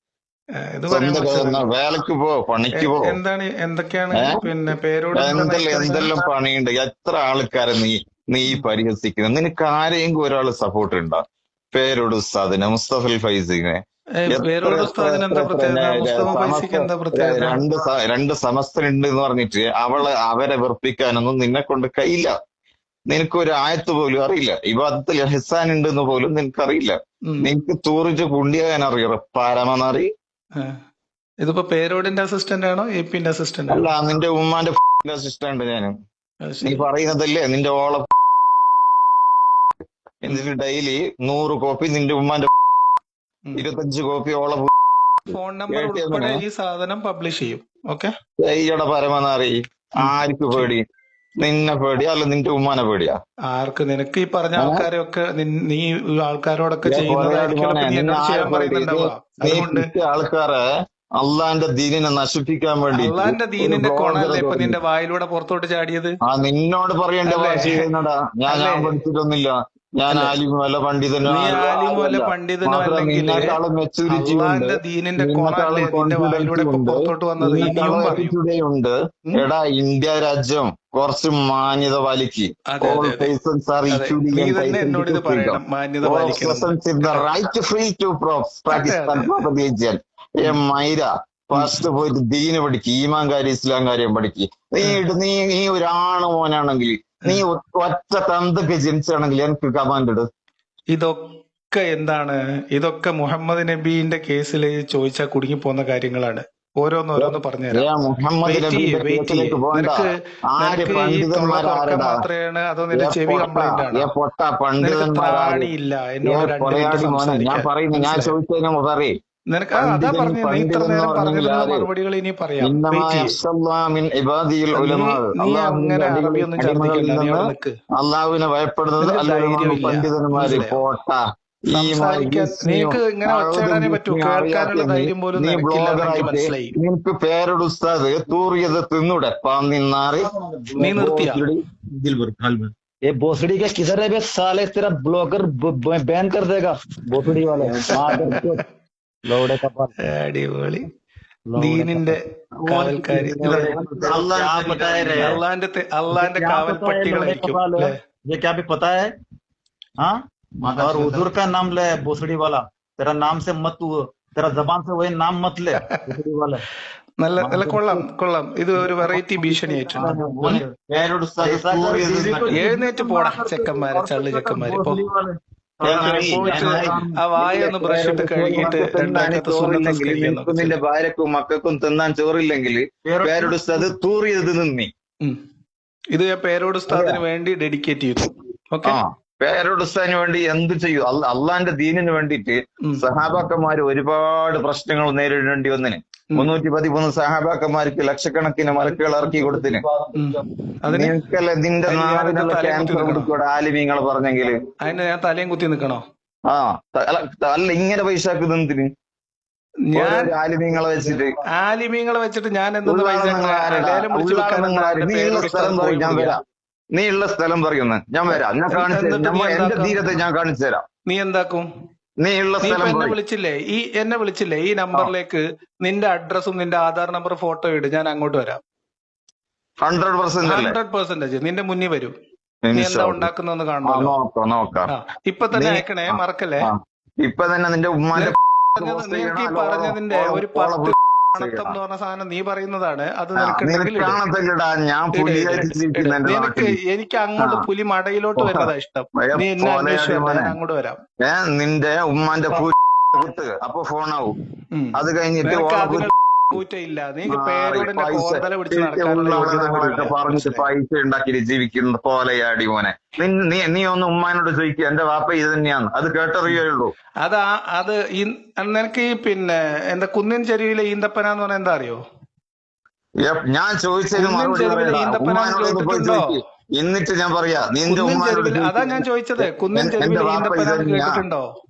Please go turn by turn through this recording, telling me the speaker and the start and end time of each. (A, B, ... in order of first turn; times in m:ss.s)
0:00.8-0:01.6 A
0:00.9-0:03.2 B
0:02.8-0:06.1 A
0:04.1-0:04.4 B
0:05.1-0:13.8 B
0:14.2-0:17.6 A
0:14.3-0:22.3 B
0:23.1-0:30.1 B
0:31.4-0:33.8 A
0:33.7-0:35.9 B
0:36.4-0:36.8 A
0:36.6-0:38.1 B
0:40.2-0:42.5 B
0:43.6-0:44.7 B
0:45.3-0:48.1 A
0:45.7-0:46.4 B
0:48.4-0:50.8 B
0:50.0-0:50.7 A
0:51.4-0:53.2 B
0:53.5-0:59.9 A
0:54.6-0:54.9 B
0:56.8-1:00.6 B
1:01.2-1:04.8 B
1:02.9-1:06.1 A
1:06.3-1:40.3 B
1:07.3-1:07.8 A
1:08.5-1:09.0 A
1:10.1-1:10.4 A
1:11.2-1:13.6 A
1:14.1-1:18.3 A
1:22.7-1:23.3 A
1:23.9-1:27.2 A
1:28.7-1:29.3 A
1:40.9-1:41.2 A
1:41.7-1:47.8 A
1:47.2-1:52.2 B
1:48.4-1:54.1 A
1:52.9-1:55.7 B
1:54.8-1:58.3 A
1:56.2-1:59.1 B
1:59.5-2:03.3 A
1:59.7-2:01.9 B
2:02.6-2:07.4 B
2:04.7-2:07.7 A
2:07.9-2:20.3 B
2:09.0-2:10.8 A
2:11.7-2:16.7 A
2:20.3-2:21.4 C
2:20.8-2:21.4 A
2:20.9-2:21.6 B
2:22.1-2:28.6 C
2:27.9-2:28.4 A
2:29.2-2:30.0 C
2:30.0-2:30.9 A
2:31.5-2:35.4 C
2:31.5-2:33.7 A
2:33.2-2:35.4 B
2:35.2-2:37.9 A
2:36.1-2:39.1 C
2:40.0-2:46.6 C
2:40.8-2:41.1 B
2:47.2-2:50.1 A
2:47.4-2:48.0 C
2:48.8-2:50.7 C
2:49.9-2:52.6 B
2:51.2-2:58.8 C
2:52.5-2:55.0 A
2:55.8-3:04.9 B
2:55.9-3:00.7 A
3:03.0-3:03.6 C
3:06.1-3:09.0 A
3:06.9-3:07.2 C
3:08.8-3:19.8 B
3:19.3-3:20.4 C
3:20.1-3:21.1 A
3:20.8-3:24.6 B
3:21.9-3:23.3 A
3:24.8-3:26.0 A
3:26.5-3:28.9 B
3:29.9-3:30.3 A
3:29.9-3:31.3 B
3:31.6-3:36.4 A
3:32.8-3:36.4 B
3:36.9-3:40.8 B
3:38.7-3:40.0 A
3:41.0-3:41.7 A
3:42.2-3:43.2 B
3:42.6-3:48.6 A
3:49.8-3:50.8 B
3:50.4-3:52.1 A
3:52.6-3:53.3 B
3:52.7-3:54.1 A
3:53.8-3:54.9 B
3:54.9-3:56.7 A
3:55.5-4:01.8 B
3:58.1-4:04.2 A
4:03.4-4:06.7 B
4:05.1-4:11.0 A
4:07.4-4:07.7 B
4:08.4-4:10.5 B
4:11.2-4:14.4 B
4:14.7-4:20.6 A
4:14.9-4:16.6 B
4:17.3-4:26.9 B
4:27.2-4:32.0 A
4:33.2-4:39.0 B
4:34.2-4:36.3 A
4:37.9-4:41.4 A
4:39.7-4:41.2 B